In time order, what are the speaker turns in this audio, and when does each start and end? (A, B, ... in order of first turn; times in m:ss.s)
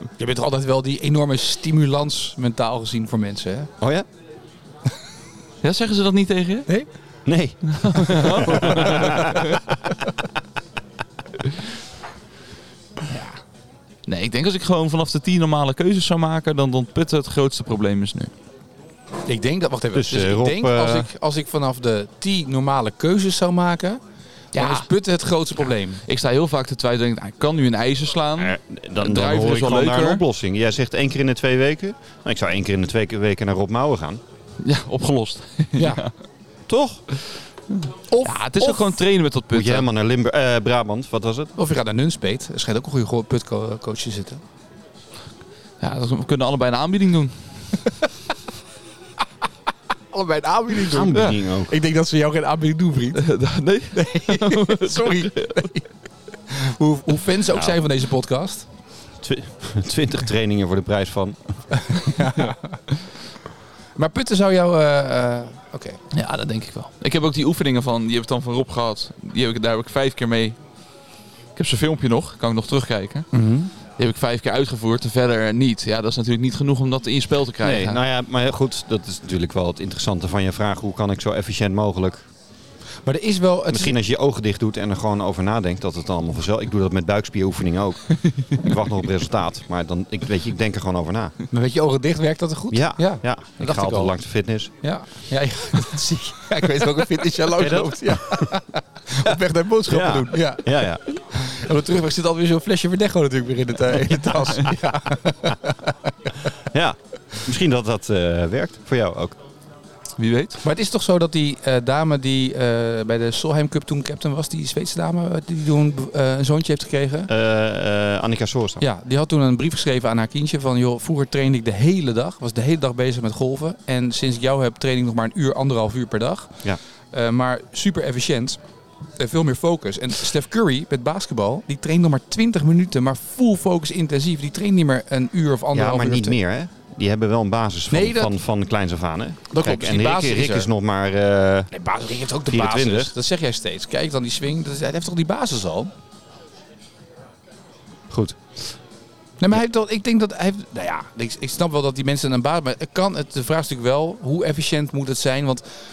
0:00.2-0:03.7 A
0:03.8-0:04.1 B
0:05.6-0:06.8 C
0:07.2-0:09.6 B
0:07.7-0:09.6 C
0:08.2-0:09.4 A
0:13.1-0:13.4 A
0:14.1-0:18.3 C
0:19.3-0:24.0 A
0:19.9-0:21.1 B
0:24.5-0:26.0 A
0:24.6-0:24.9 C
0:26.0-0:30.2 C
0:28.4-0:34.2 B
0:34.6-0:36.1 C
0:35.8-0:36.0 A
0:36.7-0:37.0 B
0:37.8-0:39.9 C
0:38.1-0:39.0 A
0:39.5-0:41.5 B
0:41.6-0:44.4 A
0:45.8-0:47.4 C
0:50.1-0:53.3 A
0:50.8-0:51.7 B
0:53.2-0:55.7 C
0:53.9-0:55.9 A
0:56.5-0:58.7 A
0:57.5-0:57.8 B
0:59.2-1:02.1 B
1:01.9-1:02.8 A
1:04.0-1:06.0 A
1:06.1-1:10.6 C
1:11.6-1:13.3 C
1:13.3-1:13.7 A
1:14.0-1:18.0 C
1:17.6-1:22.3 B
1:23.0-1:24.0 A
1:23.7-1:31.4 B
1:28.3-1:28.6 C
1:31.5-1:34.2 A
1:32.7-1:34.7 B
1:34.8-1:46.3 A
1:37.6-1:38.6 B
1:39.3-1:41.0 B
1:46.7-1:49.4 B
1:50.2-1:50.6 C
1:50.6-1:57.3 A
1:57.3-1:58.8 B
1:58.8-2:08.6 A
2:09.2-2:16.4 A
2:15.7-2:21.7 B
2:17.9-2:18.3 A
2:19.5-2:20.7 A
2:21.7-2:25.9 A
2:22.5-2:23.1 B
2:28.1-2:28.8 B
2:29.4-2:35.6 A